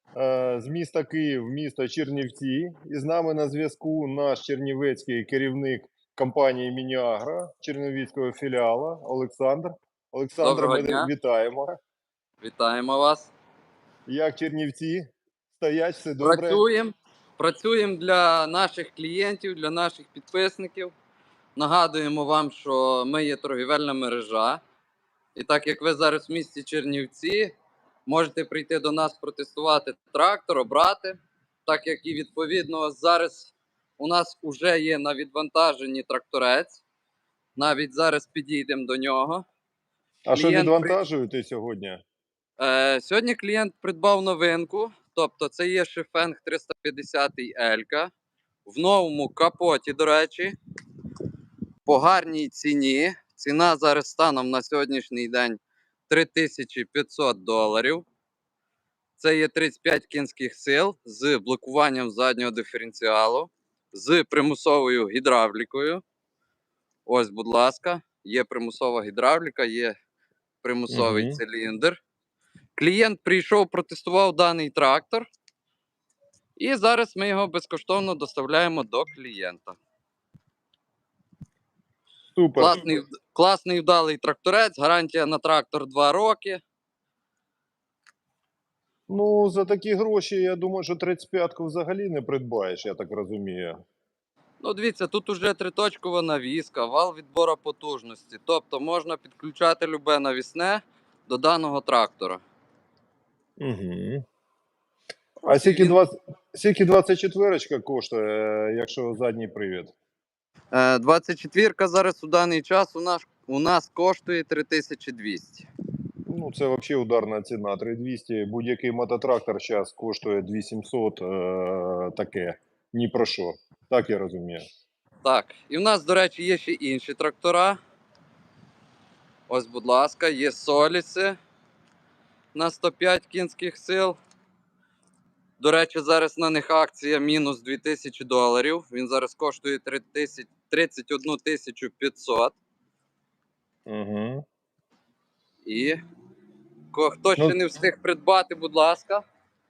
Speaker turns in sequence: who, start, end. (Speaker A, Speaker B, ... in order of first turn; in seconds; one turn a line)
Speaker A: 0.1-11.7
Speaker B: 10.4-11.1
Speaker B: 12.4-13.3
Speaker A: 14.1-16.6
Speaker B: 16.2-20.9
Speaker B: 21.6-24.6
Speaker B: 25.3-27.5
Speaker B: 28.1-36.8
Speaker B: 37.5-39.4
Speaker A: 40.3-42.0
Speaker B: 40.3-41.0
Speaker B: 42.6-48.1
Speaker B: 48.6-50.5
Speaker B: 51.9-58.0
Speaker B: 59.2-66.0
Speaker B: 67.0-69.9
Speaker B: 70.6-72.0
Speaker A: 70.9-71.4
Speaker B: 72.8-75.2
Speaker B: 76.6-79.8
Speaker A: 82.3-82.8
Speaker B: 82.6-86.6
Speaker A: 89.1-93.8
Speaker B: 94.6-102.4
Speaker A: 103.6-104.2
Speaker B: 105.4-106.0
Speaker A: 105.5-109.9
Speaker B: 110.7-115.7
Speaker A: 116.2-124.6
Speaker B: 125.2-127.8
Speaker B: 129.5-131.4
Speaker B: 132.5-134.2
Speaker B: 135.6-142.6
Speaker A: 143.9-144.4
Speaker B: 145.6-146.0
Speaker B: 146.9-149.2